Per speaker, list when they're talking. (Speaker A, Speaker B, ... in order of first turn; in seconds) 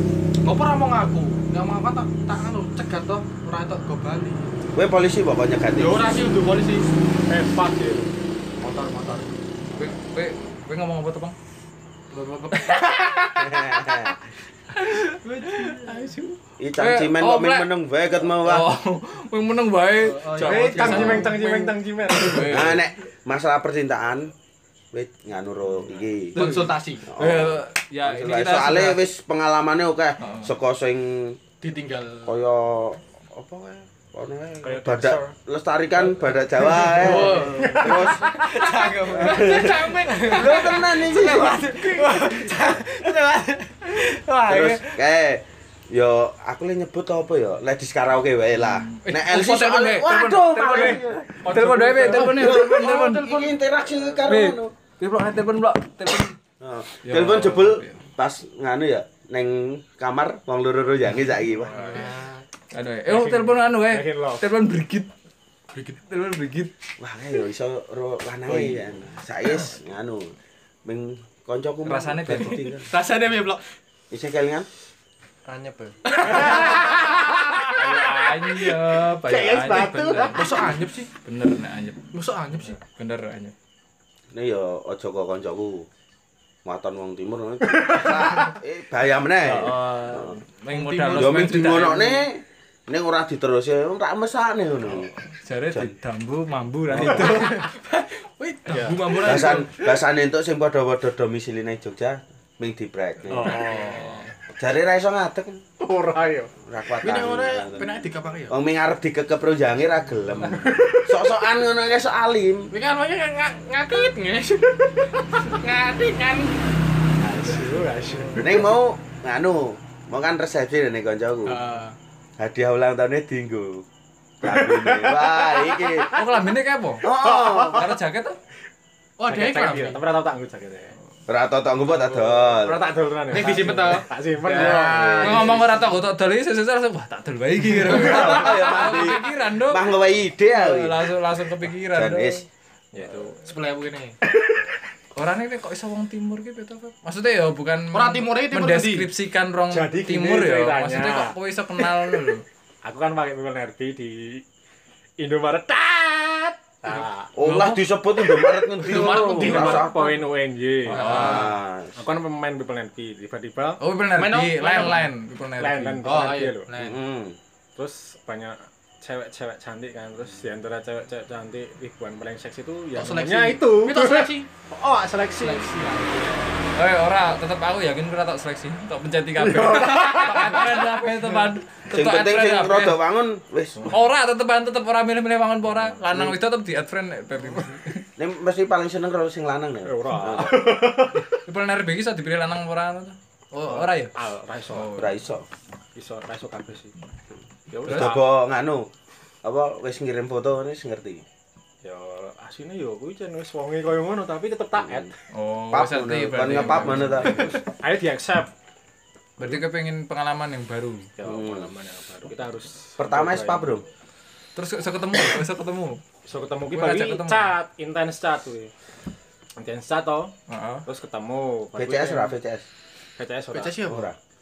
Speaker A: 0.4-4.5, 5.8-6.9, 8.6-9.4, 12.1-14.1, 15.2-16.1, 20.0-21.2, 26.3-27.1, 31.6-32.4, 36.8-42.2, 52.0-54.0, 61.7-62.5, 72.6-73.7, 76.1-77.6, 80.3-81.1, 82.1-82.8, 90.6-92.2, 97.2-99.8, 103.6-104.2, 107.0-108.5, 112.7-116.7, 121.5-122.0, 129.2-130.0, 133.3-135.2, 137.8-139.2, 143.2-144.2, 147.9-149.1, 158.8-160.2, 160.9-161.5, 164.2-165.1, 166.0-167.0, 172.9-174.5, 175.4-176.5, 223.5-224.1
Speaker B: 4.7-6.1, 13.4-14.2, 16.6-18.7, 22.5-24.3, 24.9-26.4, 27.1-31.4, 32.2-38.4, 39.1-41.7, 44.5-51.5, 52.3-54.7, 56.6-62.0, 67.0-70.3, 70.8-72.8, 74.1-74.7, 79.2-80.4, 84.3-85.9, 86.6-90.4, 91.1-95.1, 96.9-97.3, 99.2-103.7, 104.6-105.6, 106.7-107.9, 108.5-112.7, 117.2-121.6, 122.4-123.8, 124.4-126.1, 127.0-128.0, 131.3-132.9, 134.6-135.6, 137.9-141.1, 141.9-142.4, 157.4-160.1, 160.9-162.0, 166.8-167.4, 181.9-183.9, 188.2-190.8, 194.9-195.4, 197.9-198.9, 199.4-201.2, 204.8-205.1, 205.7-207.6, 211.2-211.7, 213.0-213.8, 221.8-222.6, 223.8-224.2
Speaker C: 7.3-8.1, 20.4-22.8, 34.6-35.3, 36.6-37.9, 50.5-52.4, 61.6-62.1, 63.1-64.5, 98.7-99.0, 103.3-104.2, 105.8-106.5, 110.6-111.2, 117.4-118.7, 124.4-126.1, 127.2-127.8, 129.3-130.9, 132.2-135.6, 142.9-143.5, 144.2-144.7, 149.7-152.1, 152.8-154.4, 155.2-157.3, 158.8-161.4, 161.9-163.8, 165.6-166.7, 167.7-175.7, 179.4-180.6, 189.8-191.3, 193.7-194.9, 195.9-196.9, 197.7-198.2, 201.8-205.2, 207.0-208.5, 211.2-213.8, 216.3-218.7, 219.6-222.3, 223.2-223.8
Speaker D: 9.7-11.3, 12.5-13.3, 14.7-17.7, 18.4-22.9, 26.3-29.0, 30.2-30.5, 48.7-53.2, 54.3-56.4, 57.0-58.0, 62.7-65.1, 65.9-66.7, 71.8-72.8, 77.7-80.5, 81.1-82.0, 82.8-83.5, 89.4-92.1, 95.3-97.7, 103.3-104.2, 126.1-128.4, 135.2-139.9, 140.5-142.4, 145.2-152.4, 157.4-157.8, 160.8-161.5, 163.8-166.1, 176.7-183.0, 183.9-188.1, 191.2-194.1, 194.7-195.1, 197.8-198.2, 205.3-207.6, 209.4-211.2, 214.6-216.0, 216.7-217.6, 220.5-220.8
Speaker E: 37.8-45.0, 54.3-54.6, 75.4-76.1